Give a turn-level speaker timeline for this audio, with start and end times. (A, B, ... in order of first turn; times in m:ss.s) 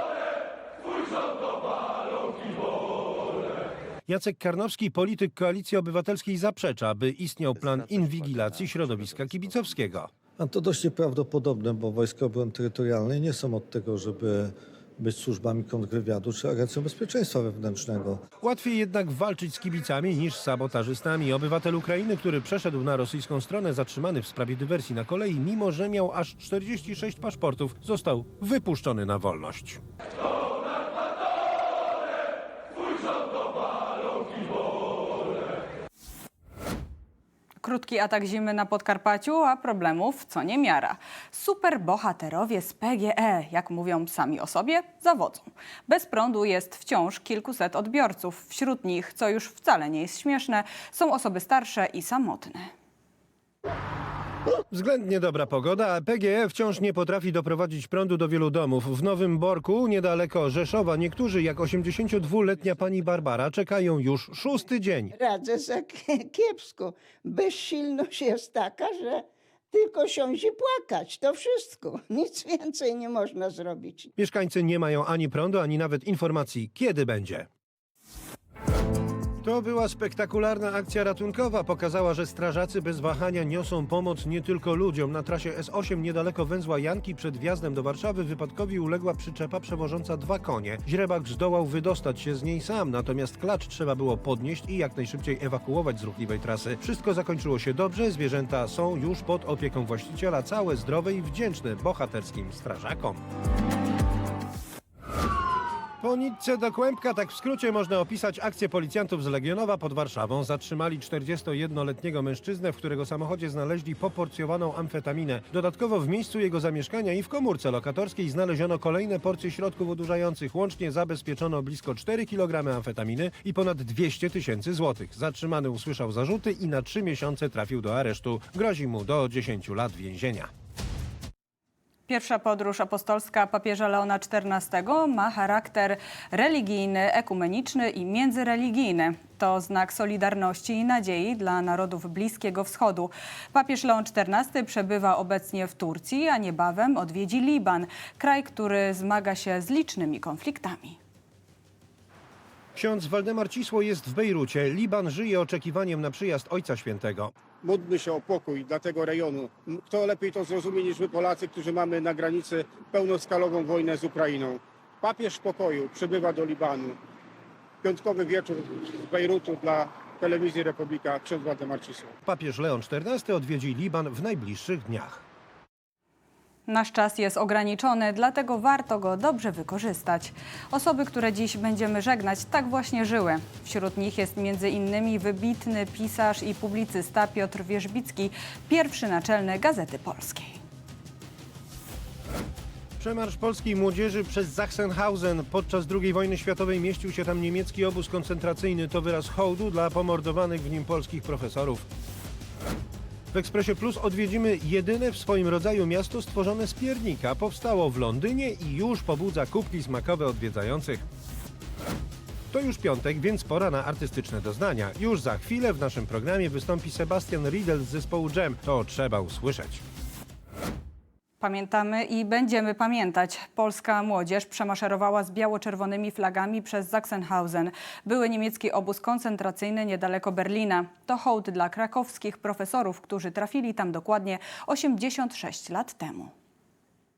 0:04.1-0:10.1 A
0:10.4-0:18.2 B
0:18.4-0:29.8 A
0:37.6-0:52.7 C
0:54.7-1:05.1 A
1:05.1-1:14.1 D
1:14.2-1:17.5 A
1:19.4-1:43.2 A
1:46.0-2:10.5 A
2:12.1-2:31.0 C
2:32.8-2:37.3 A
2:37.6-2:47.0 E
2:47.8-2:52.1 E
2:52.3-2:55.2 A
2:56.7-3:10.6 C
3:13.0-3:21.9 A
3:23.3-3:31.1 A
3:32.5-3:39.8 A
3:41.4-3:56.3 C